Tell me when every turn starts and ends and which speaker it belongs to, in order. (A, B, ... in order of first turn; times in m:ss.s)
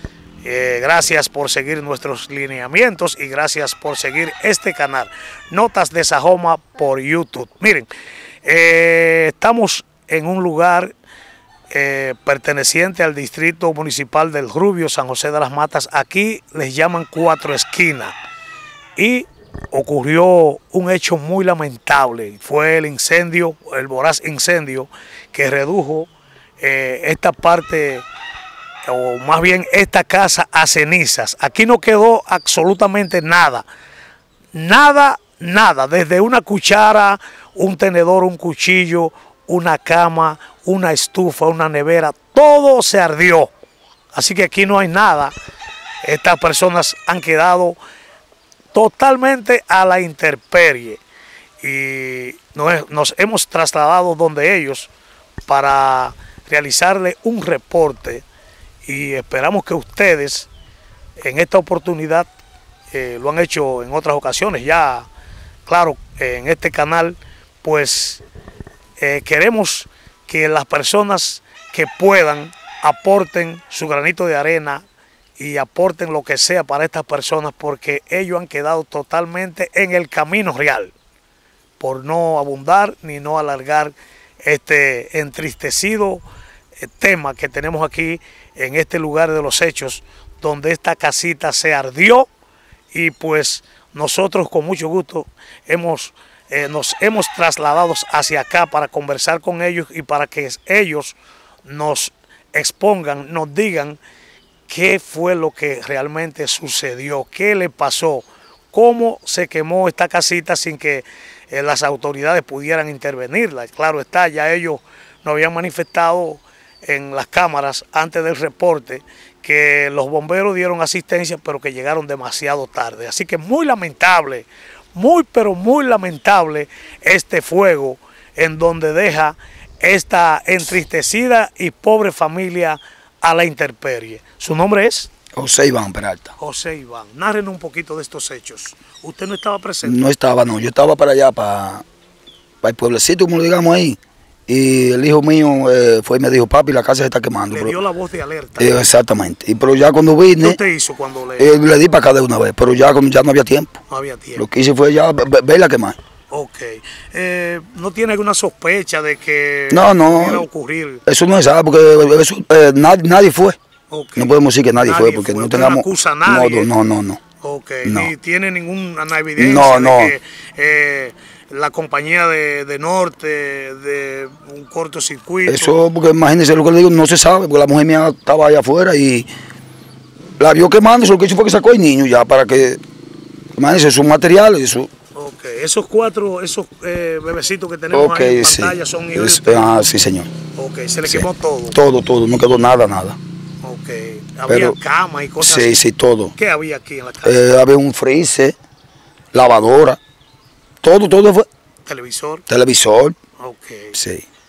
0:00.4-0:07.9 A
0:08.4-0:10.9 A
0:11.7-0:18.2 A
0:19.0-0:28.0 A
0:28.8-0:33.6 A
0:34.5-0:43.5 A
0:44.1-0:45.3 A
0:46.0-0:47.8 A
0:48.7-0:51.0 A
0:51.6-0:54.9 A
0:55.5-0:58.2 A
0:58.8-1:00.5 A
1:01.2-1:02.3 A
1:02.9-1:05.1 A
1:05.6-1:08.2 A
1:09.0-1:14.8 A
1:15.4-1:20.9 A
1:21.8-1:26.2 A
1:26.8-1:32.3 A
1:32.9-1:44.0 A
1:44.7-2:15.1 A
2:15.3-2:16.3 B
2:16.4-2:20.0 A
2:19.8-2:21.8 B
2:22.6-2:27.8 B
2:27.5-2:28.8 A
2:28.6-2:30.6 B
2:30.4-2:31.6 A
2:31.4-2:33.8 B
2:33.9-2:34.4 A
2:34.4-2:36.0 B
2:36.3-2:41.0 A
2:39.7-2:40.5 B
2:41.0-2:43.6 B
2:43.9-2:46.7 A
2:44.2-2:47.2 B
2:47.4-2:55.8 A
2:47.8-2:48.1 B
2:49.4-2:50.1 B
2:55.4-2:59.3 B
3:00.4-3:02.8 B
3:03.6-3:04.9 B
3:05.1-3:09.6 A
3:07.9-3:10.3 B
3:10.5-3:11.8 A
3:11.1-3:13.2 B
3:13.6-3:15.8 A
3:14.5-3:14.8 B
3:15.4-3:16.3 B
3:16.3-3:17.4 A
3:17.2-3:18.6 B
3:19.3-3:20.0 B
3:20.8-3:21.5 B
3:21.8-3:22.4 A
3:22.5-3:23.2 B
3:23.4-3:24.0 A
3:23.9-3:24.2 B